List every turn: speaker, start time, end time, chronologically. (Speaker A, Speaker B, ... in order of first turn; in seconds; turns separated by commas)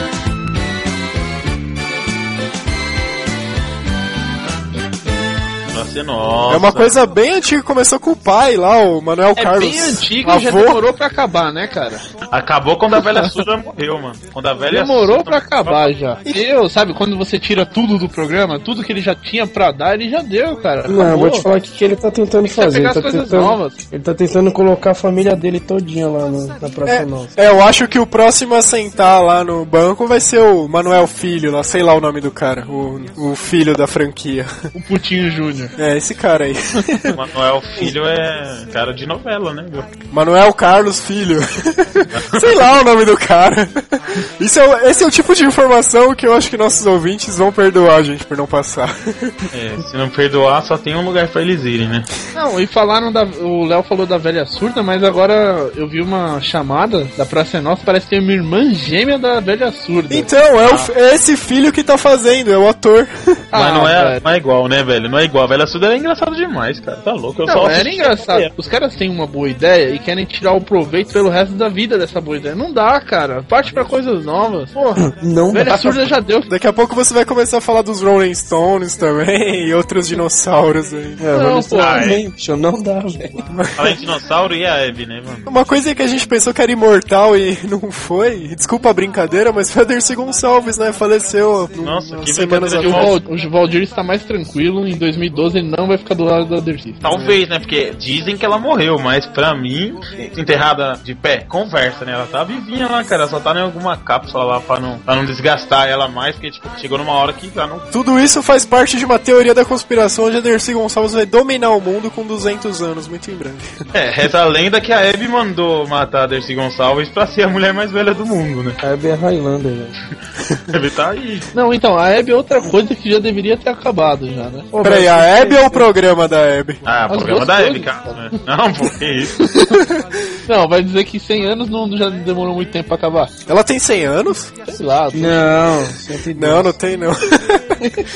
Speaker A: 5.7-6.9, Speaker B: 6.5-10.8, Speaker C: 9.3-12.0, Speaker A: 12.3-15.9, Speaker C: 13.0-13.3, Speaker C: 14.7-21.5, Speaker D: 20.9-27.4, Speaker C: 22.5-23.8, Speaker B: 26.9-34.5, Speaker C: 34.7-35.7, Speaker B: 35.8-37.1, Speaker A: 37.1-39.9, Speaker B: 40.1-49.4, Speaker A: 42.1-42.7, Speaker A: 49.5-52.1, Speaker C: 52.3-60.3, Speaker B: 60.1-63.1, Speaker A: 60.6-60.9, Speaker C: 63.5-64.2, Speaker A: 63.5-68.5, Speaker C: 67.5-76.5, Speaker D: 75.0-76.1, Speaker B: 76.5-81.2, Speaker D: 81.2-83.4, Speaker C: 81.3-82.2, Speaker A: 81.8-82.2, Speaker B: 83.6-83.9, Speaker A: 83.8-85.5, Speaker B: 85.5-93.1, Speaker A: 91.8-93.2, Speaker C: 92.8-97.0, Speaker A: 97.0-107.9, Speaker B: 107.9-113.7, Speaker A: 113.9-118.8, Speaker D: 118.8-120.0, Speaker A: 120.7-121.5, Speaker C: 121.5-124.7, Speaker D: 124.7-125.9, Speaker B: 124.8-126.8, Speaker A: 126.8-129.5, Speaker C: 127.1-128.3, Speaker C: 129.4-129.8, Speaker C: 130.5-133.3, Speaker B: 133.5-134.5, Speaker C: 134.7-135.5, Speaker D: 135.1-136.8, Speaker B: 136.4-137.7